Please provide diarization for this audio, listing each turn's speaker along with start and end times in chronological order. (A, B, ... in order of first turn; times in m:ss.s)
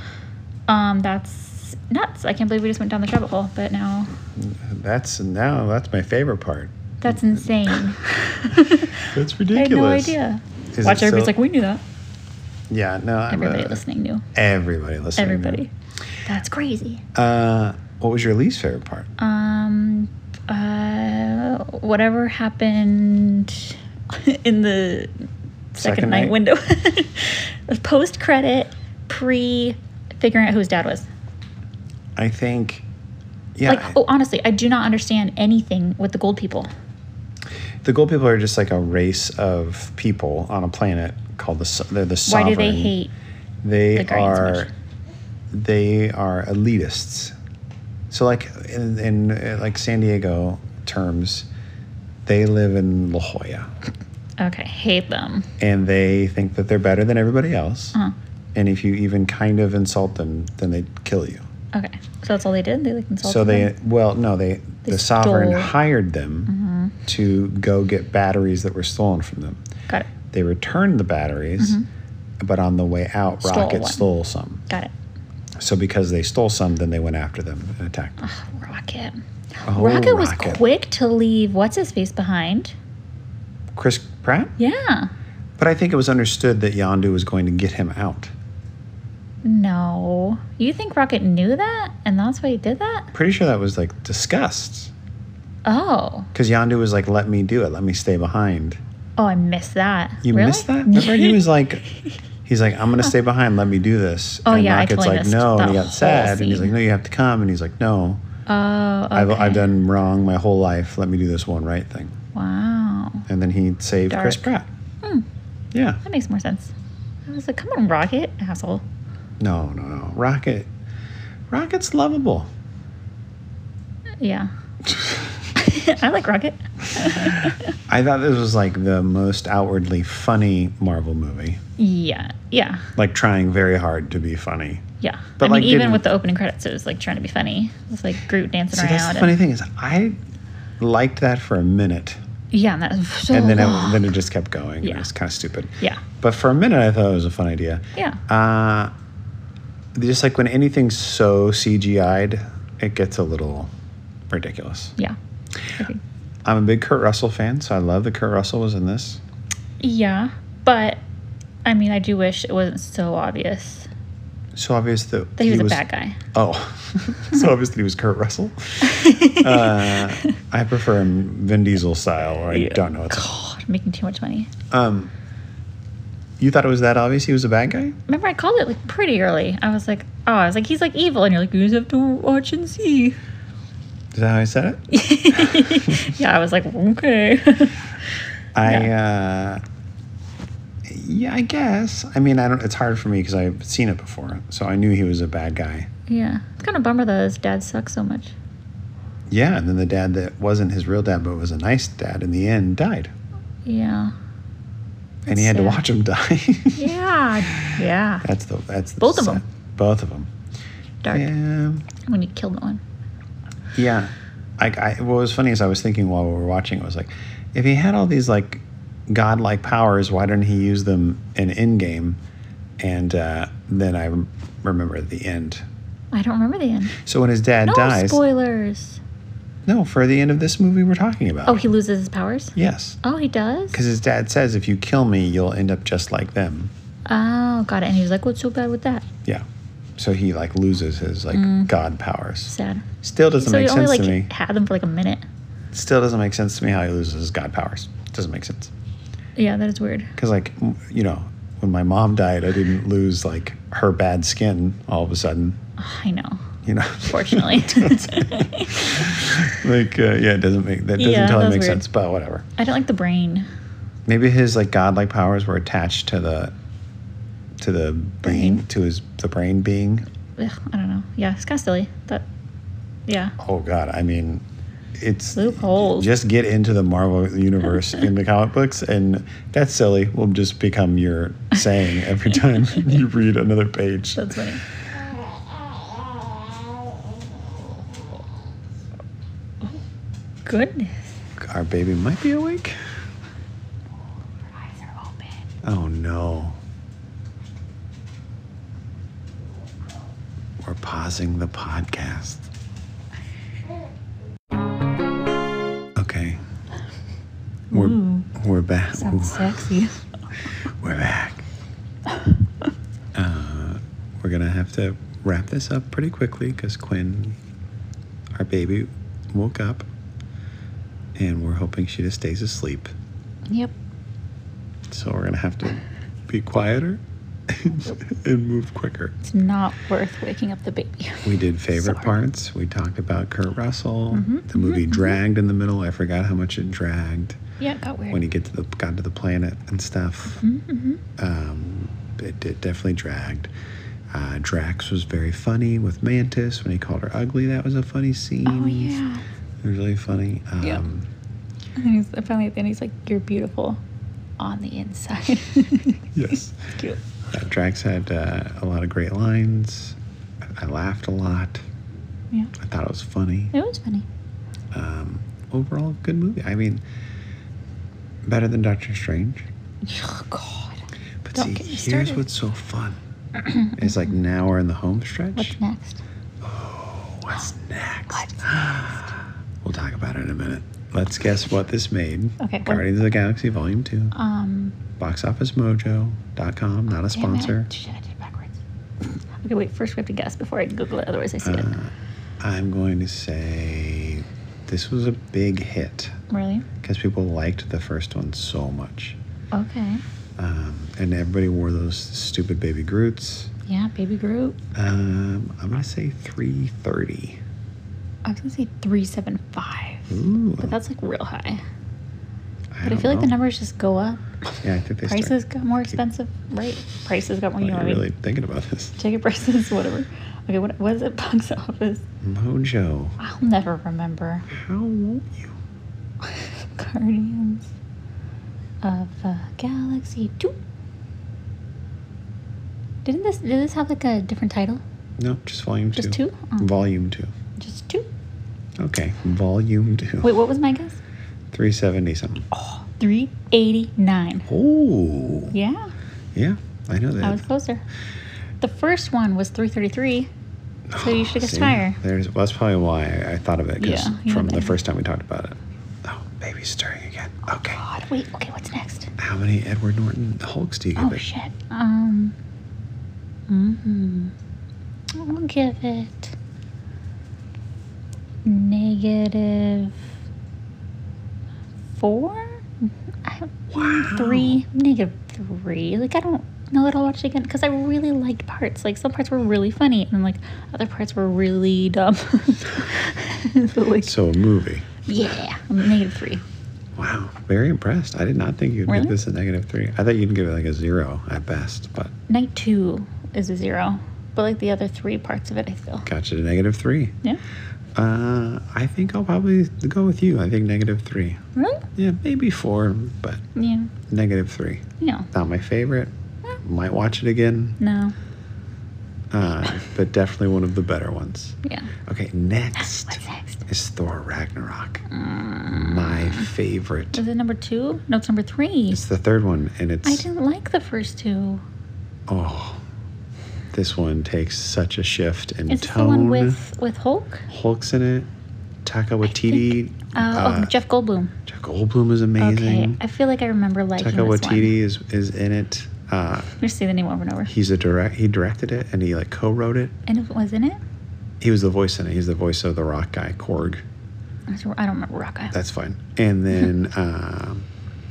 0:00.7-0:04.1 A
0:04.3-0:07.9 B
0:07.0-0:11.8 A
0:09.0-0:10.2 B
0:10.7-0:11.3 B
0:12.7-0:13.8 B
0:13.3-0:14.2 A
0:14.3-0:15.6 B
0:15.2-0:15.7 A
0:16.2-0:17.0 A
0:17.1-0:19.1 B
0:19.2-0:25.1 A
0:25.7-0:31.1 A
0:25.8-0:26.4 B
0:32.2-0:32.8 B
0:33.6-0:34.0 B
0:33.6-0:36.7 A
0:37.8-0:42.9 B
0:42.3-0:43.1 A
0:43.6-0:44.7 B
0:43.9-0:44.7 A
0:45.5-0:47.3 B
0:48.1-0:51.5 B
0:52.2-0:53.7 B
0:54.4-0:55.5 A
0:55.6-0:58.0 B
0:58.5-1:01.4 B
1:01.7-1:03.7 A
1:03.2-1:06.5 B
1:04.8-1:05.7 A
1:06.5-1:07.0 A
1:07.0-1:09.6 B
1:10.3-1:11.8 B
1:11.6-1:11.8 A
1:12.4-1:14.6 B
1:13.4-1:14.0 A
1:15.6-1:18.3 B
1:18.2-1:22.7 A
1:19.6-1:20.6 B
1:23.7-1:24.5 B
1:24.6-1:25.1 A
1:25.6-1:28.3 B
1:29.4-1:33.1 A
1:33.1-1:34.9 B
1:35.6-1:36.3 A
1:36.3-1:38.8 B
1:39.2-1:41.5 A
1:40.2-1:41.8 B
1:42.4-1:48.2 B
1:44.4-1:46.7 A
1:48.4-1:49.7 A
1:49.1-1:52.2 B
1:52.3-1:53.2 A
1:53.3-1:54.7 B
1:54.1-1:54.5 A
1:55.7-1:56.0 B
1:56.0-1:56.7 A
1:57.2-1:58.8 A
1:59.4-2:00.7 B
2:01.5-2:02.5 B
2:04.2-2:04.5 A
2:05.5-2:07.7 A
2:07.9-2:11.6 B
2:11.8-2:12.9 A
2:12.9-2:14.8 B
2:15.0-2:19.4 A
2:15.4-2:16.1 B
2:18.7-2:20.2 B
2:20.8-2:22.2 B
2:22.5-2:24.1 A
2:23.3-2:28.9 B
2:24.8-2:25.1 A
2:29.9-2:33.7 B
2:34.3-2:35.0 B
2:36.4-2:39.2 B
2:39.8-2:41.0 A
2:41.6-2:43.9 A
2:44.5-2:45.8 B
2:45.4-2:46.2 A
2:46.3-2:53.3 B
2:48.8-2:50.2 A
2:52.5-2:54.5 A
2:54.7-2:55.1 B
2:56.4-2:58.0 B
2:58.1-3:03.2 A
3:04.1-3:06.1 B
3:04.9-3:07.9 A
3:08.5-3:09.6 B
3:08.6-3:08.9 A
3:10.8-3:15.9 B
3:16.1-3:18.3 A
3:19.3-3:23.1 B
3:23.6-3:24.1 A
3:25.3-3:25.8 A
3:25.3-3:26.9 B
3:26.8-3:28.2 A
3:27.5-3:30.3 B
3:29.0-3:29.4 A
3:31.0-3:31.3 A
3:31.1-3:31.9 B
3:32.0-3:32.8 A
3:33.7-3:42.2 B
3:42.8-3:45.6 B
3:46.1-3:46.9 A
3:47.0-3:48.2 B
3:47.6-3:49.0 A
3:49.6-3:51.7 B
3:51.4-3:53.8 A
3:52.6-3:53.0 B
3:53.7-3:56.7 B
3:57.1-3:59.0 A
4:00.0-4:04.3 B
4:01.3-4:01.7 A
4:02.5-4:02.8 A
4:03.4-4:05.2 A
4:05.7-4:08.7 B
4:09.4-4:10.1 A
4:10.2-4:15.6 B
4:15.8-4:16.4 A
4:16.6-4:22.4 B
4:17.1-4:18.8 A
4:21.0-4:21.8 A
4:22.6-4:23.5 A
4:24.1-4:26.5 B
4:27.6-4:30.0 B
4:28.2-4:28.6 A
4:30.4-4:32.2 A
4:33.1-4:33.3 A
4:33.4-4:34.4 B
4:35.0-4:44.3 B
4:35.3-4:36.1 A
4:44.1-4:44.6 A
4:50.4-4:51.1 A
4:51.4-4:52.8 B
4:54.7-4:55.3 A
4:55.6-4:56.6 B
5:00.6-5:02.5 B
5:06.0-5:06.4 B
5:07.7-5:08.3 A
5:07.7-5:09.6 B
5:08.9-5:10.0 A
5:10.8-5:11.5 B
5:13.1-5:17.4 B
5:18.3-5:19.9 B
5:21.2-5:22.9 B
5:23.5-5:23.7 A
5:24.9-5:29.1 B
5:29.2-5:32.1 A
5:31.2-5:37.4 B
5:34.1-5:35.2 A
5:37.6-5:38.2 A
5:38.1-5:40.4 B
5:40.4-5:41.0 A
5:41.2-5:43.5 B
5:44.1-5:49.0 B
5:48.4-5:49.2 A
5:49.6-5:51.1 B
5:51.8-5:53.8 A
5:54.4-5:56.0 A
5:56.1-5:56.8 B
5:57.3-6:00.0 B
6:00.6-6:01.6 B
6:02.6-6:03.5 B
6:03.5-6:04.0 A
6:04.7-6:06.8 B
6:08.2-6:09.5 B
6:09.8-6:10.8 A
6:11.2-6:13.0 B
6:11.3-6:12.2 A
6:13.7-6:15.6 B
6:15.3-6:16.0 A
6:16.4-6:24.1 B
6:18.1-6:18.4 A
6:22.4-6:22.8 A
6:24.1-6:24.8 A
6:25.0-6:27.7 B
6:27.1-6:28.6 A
6:29.4-6:31.8 A
6:31.4-6:36.1 B
6:36.3-6:36.7 A
6:36.8-6:39.2 B
6:39.5-6:40.0 A
6:40.4-6:43.5 B
6:43.6-6:44.6 A
6:44.7-6:47.4 B
6:48.2-6:51.6 A
6:50.1-6:50.8 B
6:52.7-6:53.4 B
6:52.8-6:54.2 A
6:54.6-6:55.4 B
6:55.0-6:58.0 A
6:57.6-6:59.0 B
6:59.0-7:02.0 A
7:02.2-7:03.2 B
7:03.2-7:04.5 A
7:04.5-7:05.5 B
7:06.2-7:07.7 A
7:08.8-7:10.5 A
7:13.0-7:14.8 A
7:15.2-7:17.3 B
7:15.9-7:16.7 A
7:17.6-7:18.1 A
7:18.8-7:20.4 B
7:20.2-7:21.0 A
7:21.5-7:22.5 B
7:22.5-7:24.5 A
7:24.5-7:25.5 B
7:25.5-7:25.9 A
7:26.3-7:27.4 B
7:27.2-7:27.8 A
7:28.6-7:30.3 A
7:30.9-7:37.8 B
7:31.0-7:32.0 A
7:33.8-7:34.8 A
7:37.6-7:39.1 A
7:39.2-7:41.2 B
7:41.0-7:42.3 A
7:43.5-7:44.3 A
7:45.2-7:46.3 A
7:48.4-7:50.0 A
7:52.0-7:52.6 A
7:53.2-8:04.1 A
7:53.7-7:54.6 B
8:04.0-8:04.9 B
8:05.1-8:06.4 A
8:07.0-8:12.1 B
8:08.9-8:09.2 A
8:12.3-8:16.1 A
8:16.0-8:17.1 B
8:18.0-8:21.4 B
8:21.6-8:21.8 A
8:22.0-8:23.4 B
8:23.5-8:23.9 A
8:24.1-8:27.8 B
8:25.0-8:25.3 A
8:27.8-8:28.1 A
8:29.3-8:35.0 B
8:31.6-8:31.9 A
8:32.8-8:33.6 A
8:35.1-8:36.5 A
8:35.7-8:37.2 B
8:37.1-8:39.0 A
8:38.9-8:40.2 B
8:40.0-8:41.6 A
8:42.3-8:42.8 B
8:43.7-8:46.6 B
8:45.7-8:47.5 A
8:47.5-8:48.3 B
8:48.8-8:50.8 B
8:49.2-8:51.3 A
8:51.4-8:53.0 B
8:52.4-8:54.7 A
8:54.0-8:56.5 B
8:56.6-8:57.5 A
8:57.4-8:59.9 B
9:00.1-9:00.8 A
9:01.4-9:03.8 B
9:04.5-9:05.5 A
9:05.5-9:07.6 B